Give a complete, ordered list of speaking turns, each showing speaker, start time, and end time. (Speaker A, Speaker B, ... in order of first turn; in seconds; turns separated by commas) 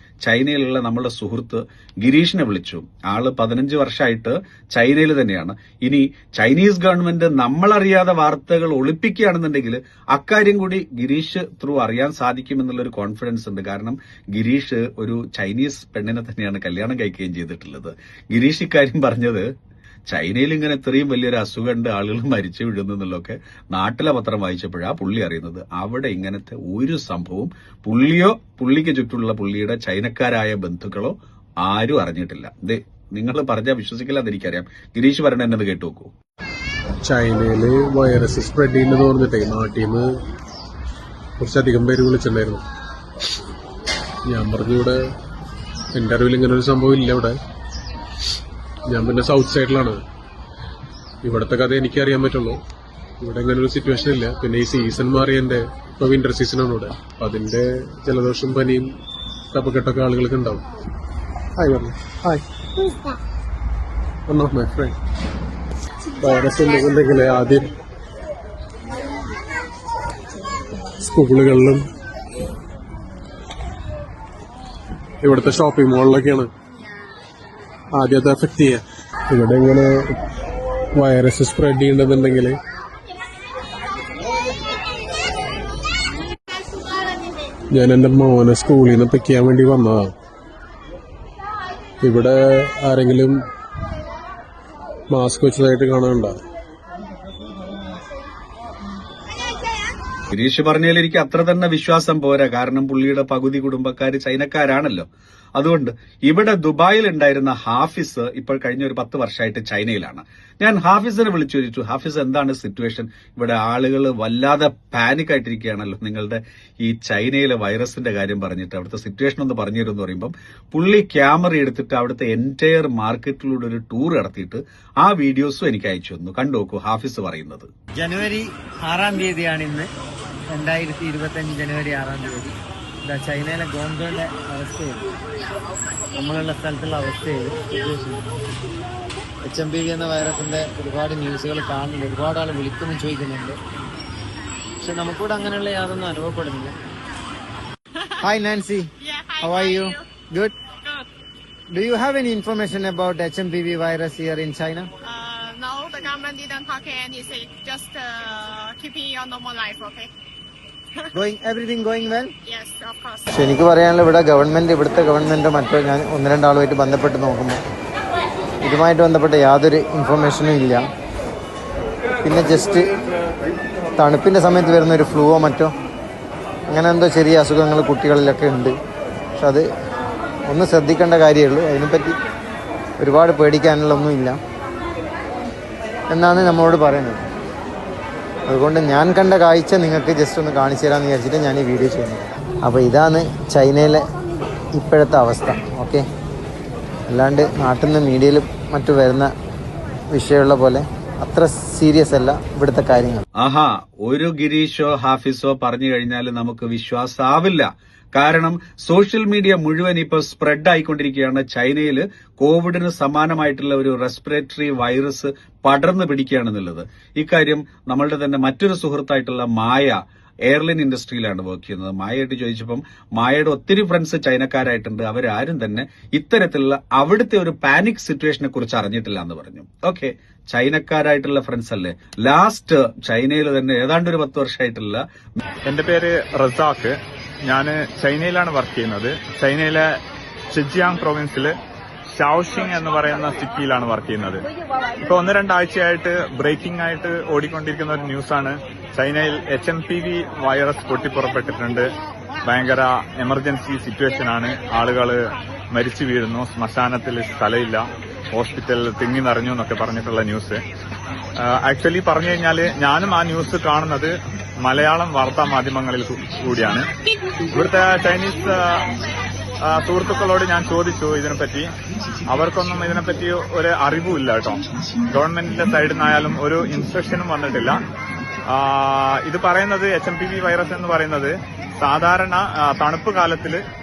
Speaker A: 0.2-19.5, Speaker A: 20.1-36.1, Speaker B: 37.0-40.1, Speaker B: 41.4-42.6, Speaker B: 44.3-45.0, Speaker B: 45.9-47.4, Speaker B: 48.9-50.0, Speaker B: 51.2-52.6, Speaker B: 53.2-58.9, Speaker B: 59.5-60.6, Speaker B: 61.6-62.4, Speaker B: 64.3-64.9, Speaker B: 66.2-67.7, Speaker B: 71.0-71.9, Speaker B: 75.2-76.5, Speaker B: 77.9-80.2, Speaker B: 80.9-82.6, Speaker B: 87.7-90.1, Speaker B: 92.0-93.4, Speaker B: 95.1-96.4, Speaker A: 100.3-127.7, Speaker C: 128.0-129.9, Speaker C: 130.5-132.5, Speaker C: 133.0-135.1, Speaker C: 136.2-138.3, Speaker C: 139.4-143.6, Speaker C: 144.8-146.8, Speaker C: 148.2-150.5, Speaker D: 149.3-149.8, Speaker C: 151.7-154.9, Speaker D: 155.5-160.1, Speaker C: 161.1-162.3, Speaker D: 162.5-163.3, Speaker C: 163.3-167.6, Speaker C: 168.6-170.8, Speaker C: 172.2-172.9, Speaker C: 174.0-175.7, Speaker C: 176.7-178.7, Speaker C: 179.4-179.6, Speaker C: 180.5-182.1, Speaker C: 183.0-184.4, Speaker C: 186.1-187.2, Speaker C: 188.5-194.1, Speaker C: 194.8-196.0, Speaker C: 197.1-199.3, Speaker C: 200.1-203.2, Speaker A: 203.4-235.0, Speaker E: 235.6-240.0, Speaker E: 240.5-241.5, Speaker E: 242.1-244.4, Speaker E: 245.0-260.6, Speaker E: 261.4-266.9, Speaker E: 267.5-268.9, Speaker E: 269.7-271.7, Speaker E: 272.3-277.8, Speaker E: 278.5-283.6